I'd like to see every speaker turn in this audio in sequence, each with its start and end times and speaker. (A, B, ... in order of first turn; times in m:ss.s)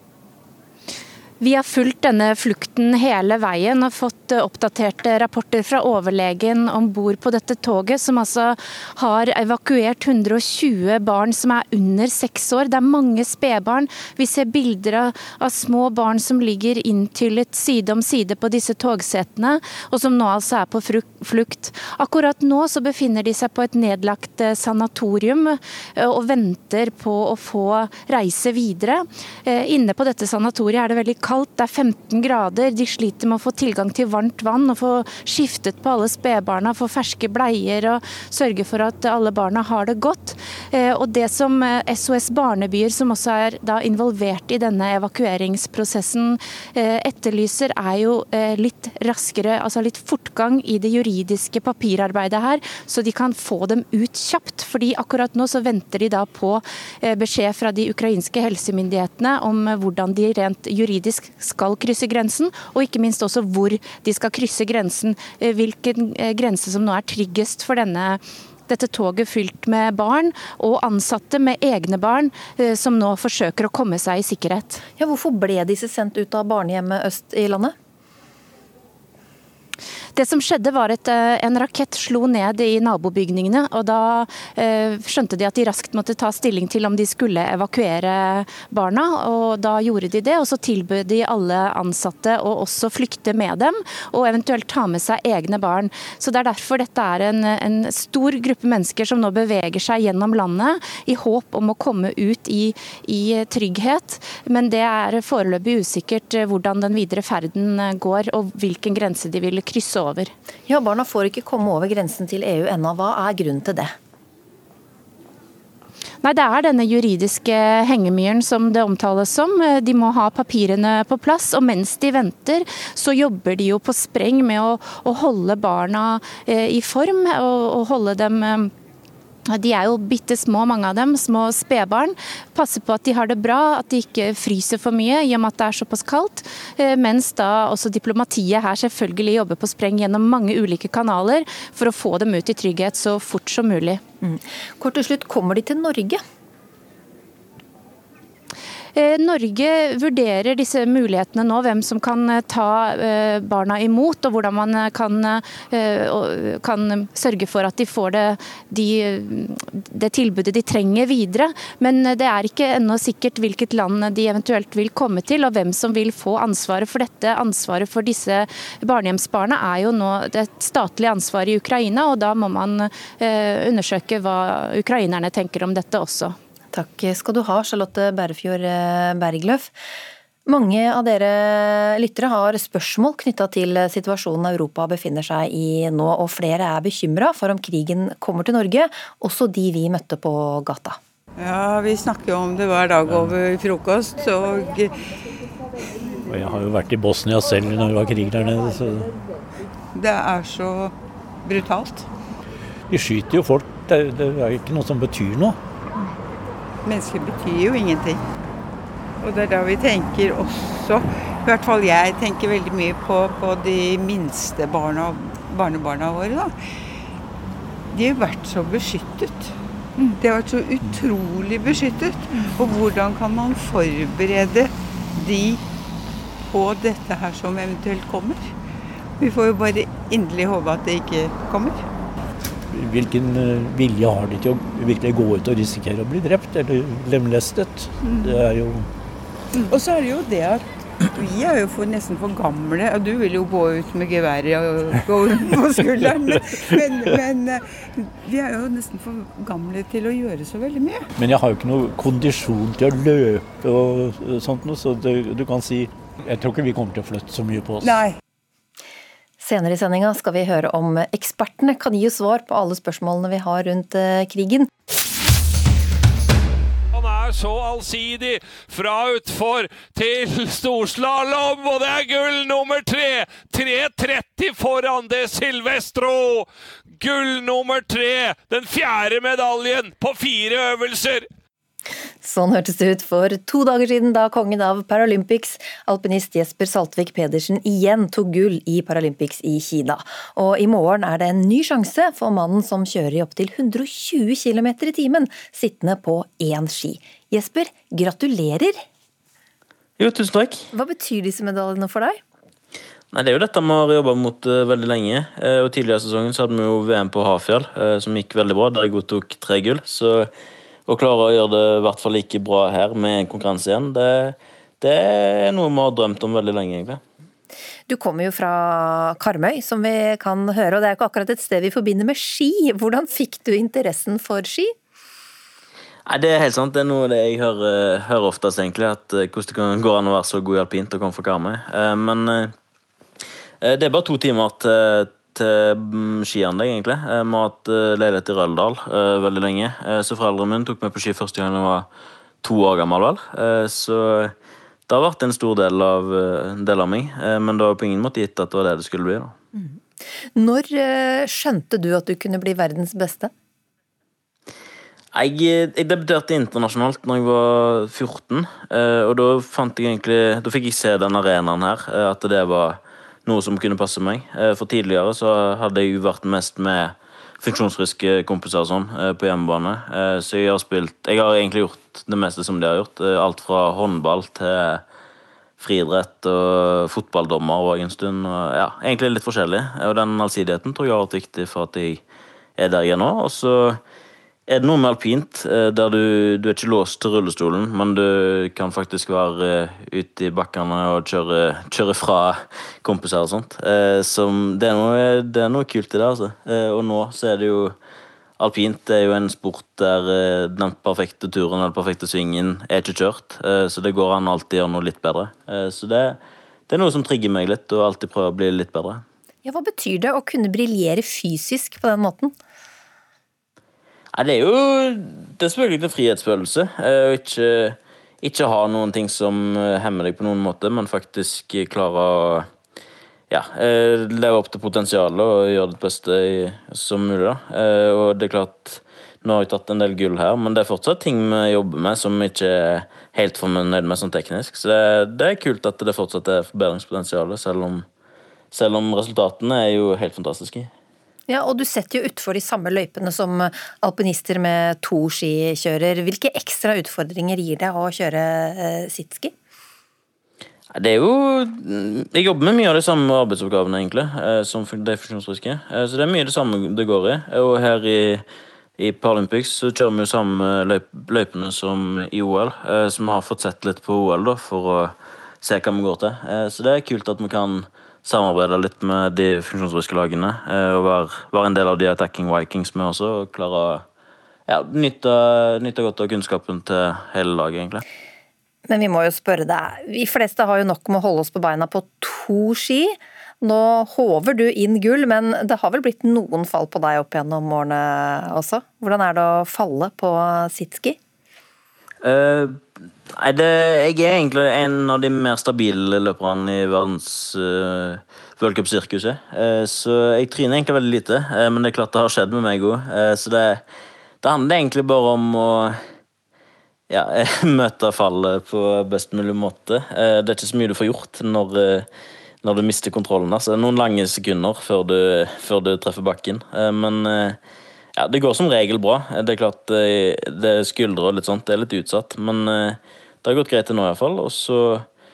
0:01.4-1:14.8 A
1:15.0-1:17.8 B
1:20.2-1:50.3 A
1:50.7-1:54.0 B
1:56.2-2:08.7 A
2:09.5-2:24.0 A
2:24.2-2:26.2 B
2:29.0-2:56.4 A
2:56.7-2:59.8 B
3:00.5-3:11.0 B
3:11.4-3:14.9 C
3:16.3-3:19.1 D
3:19.9-3:22.1 C
3:22.9-3:25.6 D
3:26.8-3:28.2 C
3:29.2-3:36.6 C
3:37.9-3:45.6 C
3:46.5-3:48.6 C
3:49.2-3:51.8 C
3:52.7-3:58.9 D
3:59.6-4:11.0 C
4:11.2-4:18.0 D
4:17.8-4:18.2 C
4:19.4-4:24.7 B
4:26.9-4:41.3 E
4:42.2-4:58.8 B
5:00.0-5:00.7 F
5:00.7-5:02.2 B
5:03.1-5:10.3 F
5:10.9-5:17.0 F
5:17.9-5:24.7 B
5:26.1-5:32.5 F
5:33.6-5:41.9 F
5:42.4-5:44.3 F
5:44.9-5:49.4 F
5:49.6-5:49.8 B
5:50.4-5:53.3 B
5:55.1-6:14.8 F
6:15.6-6:22.0 F
6:22.6-6:23.8 F
6:24.5-6:37.8 F
6:38.4-6:49.0 F
6:49.4-6:52.4 B
6:54.2-7:02.5 F
7:03.3-7:17.9 F
7:18.5-7:20.7 F
7:21.3-7:29.3 B
7:30.7-7:38.2 F
7:38.8-7:53.8 F
7:54.5-7:57.8 F
7:58.7-8:11.0 B
8:12.0-8:23.6 F
8:24.2-8:25.8 F
8:26.9-8:31.9 F
8:32.4-8:37.4 F
8:38.0-8:44.9 F